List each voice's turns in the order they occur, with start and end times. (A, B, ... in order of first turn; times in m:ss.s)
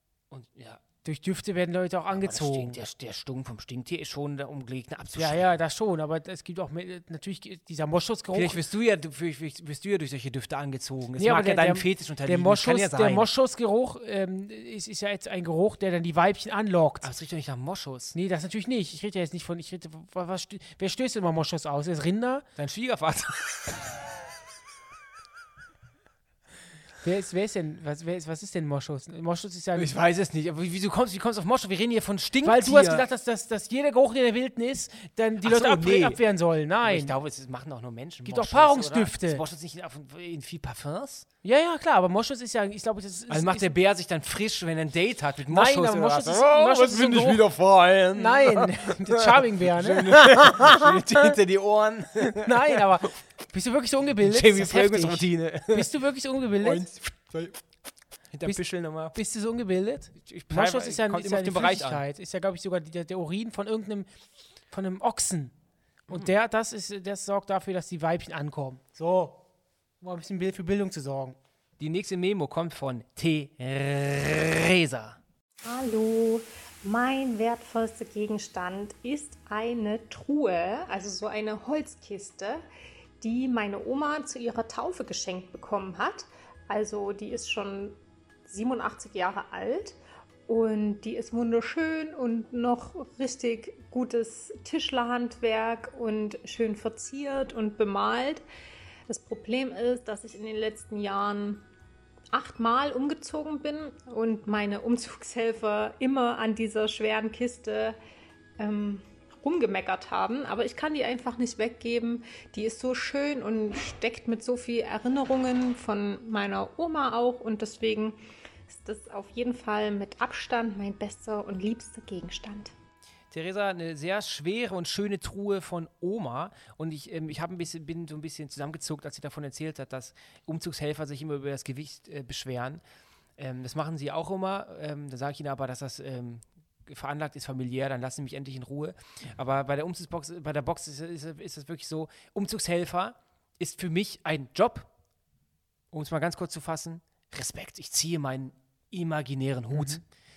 0:00.3-0:00.8 A
0:01.0-0:02.8 B
0:02.1-0:05.4 A
0:05.2-0:08.6 B
0:08.3-0:13.3 A
0:11.2-0:17.1 B
0:17.0-0:18.2 A
0:18.1-0:22.4 B
0:22.6-0:23.9 A
0:27.0-0:29.9 B
0:29.8-0:33.1 A
0:32.4-0:37.1 B
0:35.4-0:36.2 A
0:36.8-0:41.2 A
0:38.2-0:39.4 B
0:41.4-0:43.7 B
0:43.3-0:53.1 A
0:45.5-0:47.5 B
0:48.1-0:51.3 B
0:52.2-0:56.8 B
0:54.2-0:55.9 A
0:56.6-0:57.6 A
0:58.3-0:59.2 A
0:59.1-1:04.1 B
1:00.2-1:02.0 A
1:04.7-1:05.5 B
1:06.1-1:09.4 B
1:10.0-1:11.4 B
1:11.8-1:15.2 A
1:15.6-1:22.6 C
1:23.2-1:38.4 C
1:39.1-1:41.6 C
1:42.3-1:48.0 C
1:48.6-2:02.7 C
2:03.3-2:12.8 A
2:13.4-2:24.9 A
2:25.9-2:30.0 A
2:29.7-2:30.0 B